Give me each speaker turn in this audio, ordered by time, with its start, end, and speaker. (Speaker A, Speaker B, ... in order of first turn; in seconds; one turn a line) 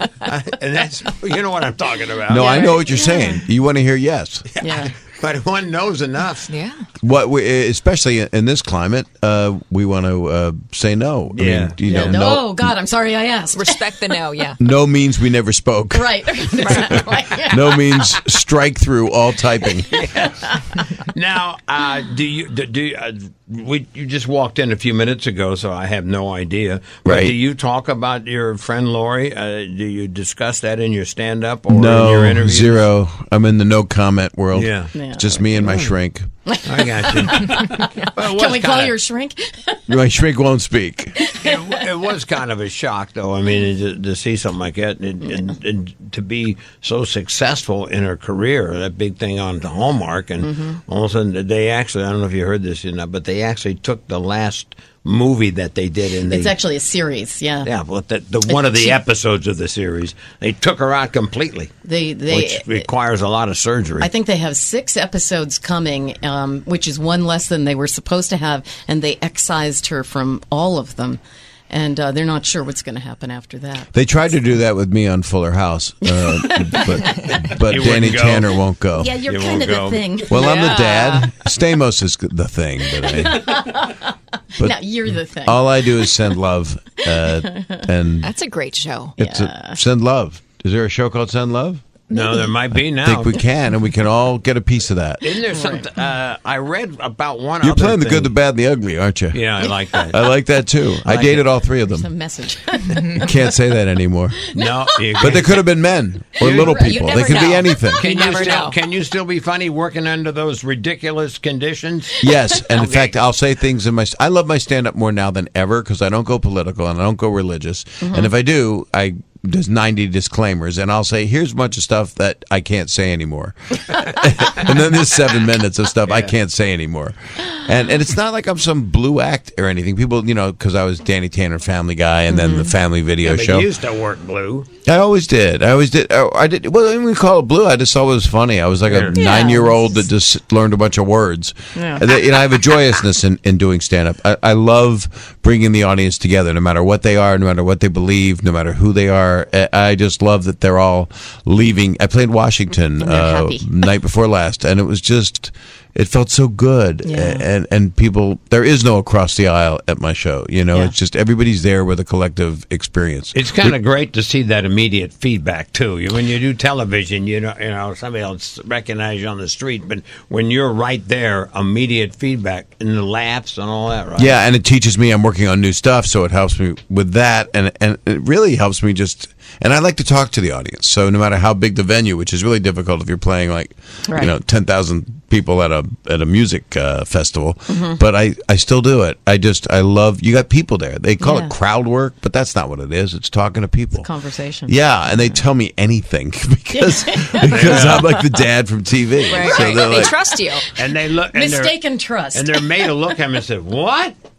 Speaker A: 0.2-2.8
Speaker B: 2.3-4.4
Speaker C: 2.4-3.4
Speaker A: 4.5-6.5
Speaker C: 4.6-4.9
Speaker D: 6.4-6.8
Speaker B: 7.0-12.7
Speaker A: 11.3-12.2
Speaker C: 11.9-14.2
Speaker D: 13.5-14.6
Speaker B: 14.6-19.9
Speaker C: 15.9-18.2
Speaker A: 19.9-32.9
Speaker B: 27.1-27.4
Speaker B: 31.7-36.3
Speaker A: 34.5-34.9
Speaker C: 34.9-35.7
Speaker A: 35.6-35.9
Speaker C: 36.5-39.8
Speaker A: 36.6-39.0
Speaker B: 39.9-41.2
Speaker C: 41.2-41.6
Speaker A: 41.4-56.6
Speaker C: 50.4-50.8
Speaker C: 56.2-57.7
Speaker A: 57.6-61.7
Speaker C: 58.5-59.0
Speaker C: 61.9-62.9
Speaker A: 62.3-64.1
Speaker C: 64.0-74.3
Speaker B: 73.9-79.2
Speaker C: 76.0-77.2
Speaker A: 77.2-78.5
Speaker C: 78.9-81.2
Speaker A: 79.2-80.5
Speaker B: 80.3-83.6
Speaker D: 80.4-81.2
Speaker C: 83.0-86.3
Speaker B: 84.6-88.3
Speaker C: 87.2-87.9
Speaker D: 88.2-89.2
Speaker C: 89.2-89.8
Speaker B: 89.2-91.8
Speaker A: 92.1-93.4
Speaker B: 93.0-95.2
Speaker A: 95.2-98.3
Speaker C: 95.5-95.9
Speaker B: 97.6-102.1
Speaker A: 99.3-100.2
Speaker A: 101.0-101.5
Speaker C: 101.7-103.3
Speaker B: 103.1-104.4
Speaker C: 104.4-105.4
Speaker A: 104.5-105.7
Speaker B: 105.2-108.1
Speaker C: 106.4-106.8
Speaker A: 106.4-113.2
Speaker D: 106.8-107.6
Speaker C: 107.6-108.2
Speaker D: 108.2-108.8
Speaker B: 112.2-133.7
Speaker C: 118.0-118.3
Speaker A: 124.4-124.7
Speaker A: 126.0-126.3
Speaker C: 132.3-132.7
Speaker A: 133.2-134.7
Speaker B: 134.8-163.8
Speaker A: 138.9-139.2
Speaker C: 139.1-140.1
Speaker C: 141.8-142.0
Speaker C: 153.0-153.7
Speaker C: 157.0-157.4
Speaker A: 163.3-174.4
Speaker B: 174.2-194.1
Speaker C: 184.1-184.3
Speaker C: 187.7-188.0
Speaker C: 191.2-191.5
Speaker C: 193.9-195.4
Speaker B: 194.7-200.2
Speaker C: 196.7-198.4
Speaker A: 197.5-198.1
Speaker D: 199.2-200.7
Speaker C: 199.3-200.7
Speaker A: 200.7-204.2
Speaker C: 201.3-203.2